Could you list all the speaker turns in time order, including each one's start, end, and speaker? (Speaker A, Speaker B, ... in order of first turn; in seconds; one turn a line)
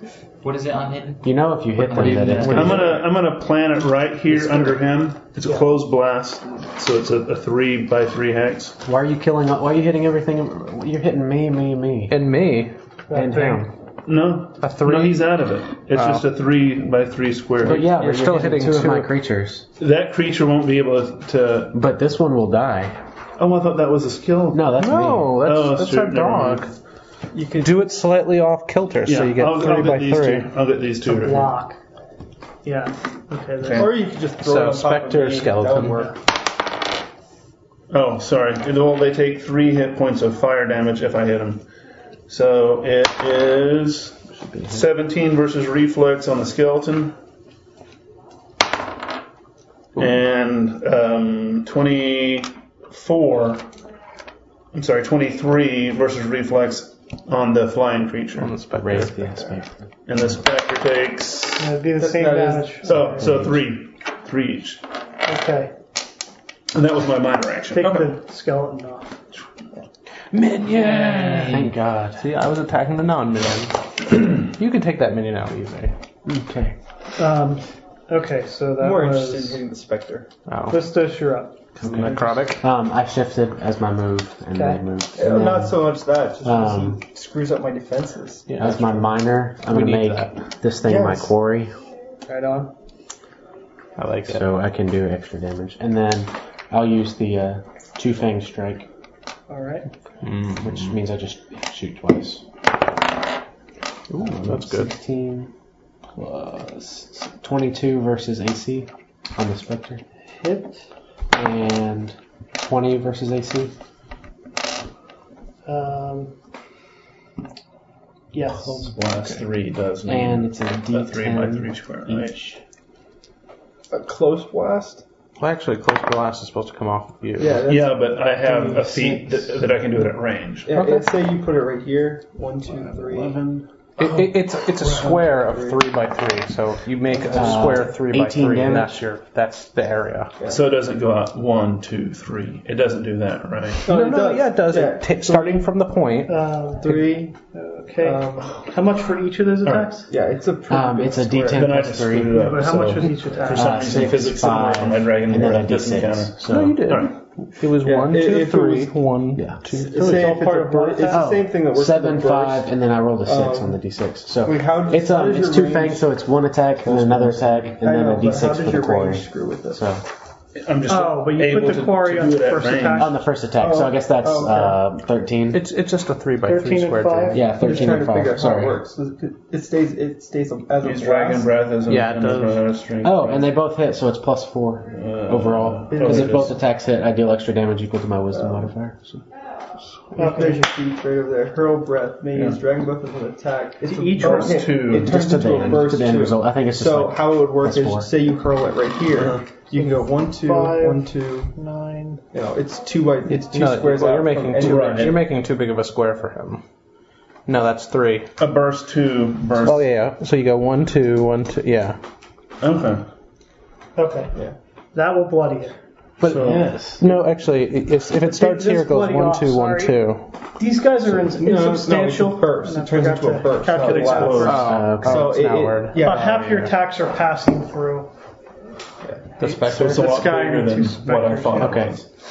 Speaker A: 0.4-2.9
Speaker B: 1.2-3.0
Speaker C: 2.5-8.8
Speaker B: 8.8-12.2
Speaker D: 12.1-12.7
Speaker E: 13.1-13.7
Speaker B: 13.1-13.7
Speaker C: 14.1-18.1
Speaker D: 14.6-15.2
Speaker D: 15.9-16.2
Speaker B: 17.6-19.6
Speaker D: 17.7-19.1
Speaker C: 19.8-21.8
Speaker B: 21.7-23.0
Speaker C: 23.4-24.8
Speaker B: 24.5-25.4
Speaker D: 24.8-26.7
Speaker C: 25.4-26.7
Speaker F: 27.3-28.0
Speaker D: 27.6-30.5
Speaker C: 29.0-31.6
Speaker E: 31.1-31.8
Speaker E: 32.6-34.0
Speaker C: 33.6-34.0
Speaker F: 33.8-36.1
Speaker D: 34.4-36.1
Speaker C: 37.9-41.6
Speaker C: 42.3-47.2
Speaker B: 44.4-44.8
Speaker C: 50.0-53.7
Speaker C: 54.7-58.6
Speaker D: 58.4-59.3
Speaker B: 58.7-59.9
Speaker C: 60.1-61.8
Speaker E: 61.6-63.2
Speaker F: 62.0-63.0
Speaker C: 62.8-64.8
Speaker B: 63.2-63.5
Speaker E: 65.2-65.7
Speaker C: 66.7-68.2
Speaker E: 67.7-69.2
Speaker D: 70.3-75.9
Speaker A: 70.7-71.7
Speaker B: 71.5-72.3
Speaker B: 76.3-76.8
Speaker E: 77.2-79.6
Speaker F: 78.8-80.3
Speaker D: 80.5-80.9
Speaker E: 80.7-81.6
Speaker D: 81.8-82.7
Speaker B: 81.8-85.9
Speaker F: 82.0-82.4
Speaker E: 84.5-84.8
Speaker F: 85.2-89.0
Speaker B: 86.4-87.0
Speaker D: 88.5-89.0
Speaker B: 88.6-91.7
Speaker D: 89.7-90.4
Speaker F: 90.8-91.3
Speaker E: 92.3-92.7
Speaker D: 94.0-94.5
Speaker B: 94.3-98.9
Speaker E: 99.5-99.9
Speaker D: 100.2-100.9
Speaker B: 100.6-102.4
Speaker D: 104.1-104.9
Speaker B: 104.2-105.5
Speaker B: 106.2-110.0
Speaker E: 110.2-110.8
Speaker B: 111.3-113.7
Speaker E: 115.7-116.3
Speaker E: 118.3-118.9
Speaker C: 118.5-122.4
Speaker B: 120.1-122.6
Speaker F: 123.9-125.0
Speaker D: 125.4-127.7
Speaker F: 127.4-129.6
Speaker C: 127.7-130.8
Speaker F: 130.7-133.4
Speaker D: 130.8-131.1
Speaker D: 132.9-140.4
Speaker F: 134.8-135.8
Speaker B: 137.3-139.0
Speaker C: 140.4-143.9
Speaker D: 143.8-147.2
Speaker F: 143.9-145.7
Speaker E: 146.3-150.1
Speaker F: 146.8-147.3
Speaker F: 148.0-148.6
Speaker C: 149.6-149.9
Speaker F: 150.1-151.8
Speaker B: 150.7-152.6
Speaker C: 151.5-157.2
Speaker E: 152.3-154.0
Speaker B: 153.5-156.9
Speaker D: 156.4-160.3
Speaker F: 157.8-159.0
Speaker B: 159.3-159.6
Speaker F: 159.7-162.7
Speaker E: 159.9-161.3
Speaker B: 161.1-170.1
Speaker F: 163.2-163.8
Speaker F: 164.4-166.1
Speaker F: 166.8-169.8
Speaker C: 170.6-173.1
Speaker E: 170.9-173.2
Speaker B: 173.0-175.7
Speaker F: 173.6-174.8
Speaker D: 175.5-178.0
Speaker E: 176.4-177.5
Speaker B: 177.3-178.8
Speaker F: 177.5-181.5
Speaker C: 180.8-183.5
Speaker D: 181.9-182.7
Speaker B: 183.0-189.2
Speaker C: 184.9-186.6
Speaker F: 185.9-186.6
Speaker F: 188.3-188.7
Speaker E: 190.2-190.7
Speaker F: 190.2-201.5
Speaker C: 192.3-192.6
Speaker E: 193.9-194.7
Speaker C: 194.2-195.2
Speaker B: 194.9-198.1
Speaker C: 199.1-199.4
Speaker E: 199.8-202.2
Speaker F: 202.3-205.2
Speaker D: 203.3-206.6
Speaker C: 204.6-205.2
Speaker D: 207.5-208.3
Speaker C: 208.4-209.9
Speaker D: 209.6-212.0
Speaker C: 212.6-213.1
Speaker E: 214.0-214.3
Speaker E: 214.9-215.8
Speaker C: 216.2-216.7
Speaker D: 216.2-220.2
Speaker B: 216.4-217.0
Speaker E: 218.2-224.7
Speaker F: 221.4-226.3
Speaker C: 223.8-224.7
Speaker D: 224.4-226.8
Speaker B: 224.6-225.4
Speaker E: 226.0-228.1
Speaker F: 229.0-229.3
Speaker E: 229.4-231.8
Speaker D: 229.4-230.0
Speaker C: 229.5-232.1
Speaker B: 231.6-232.0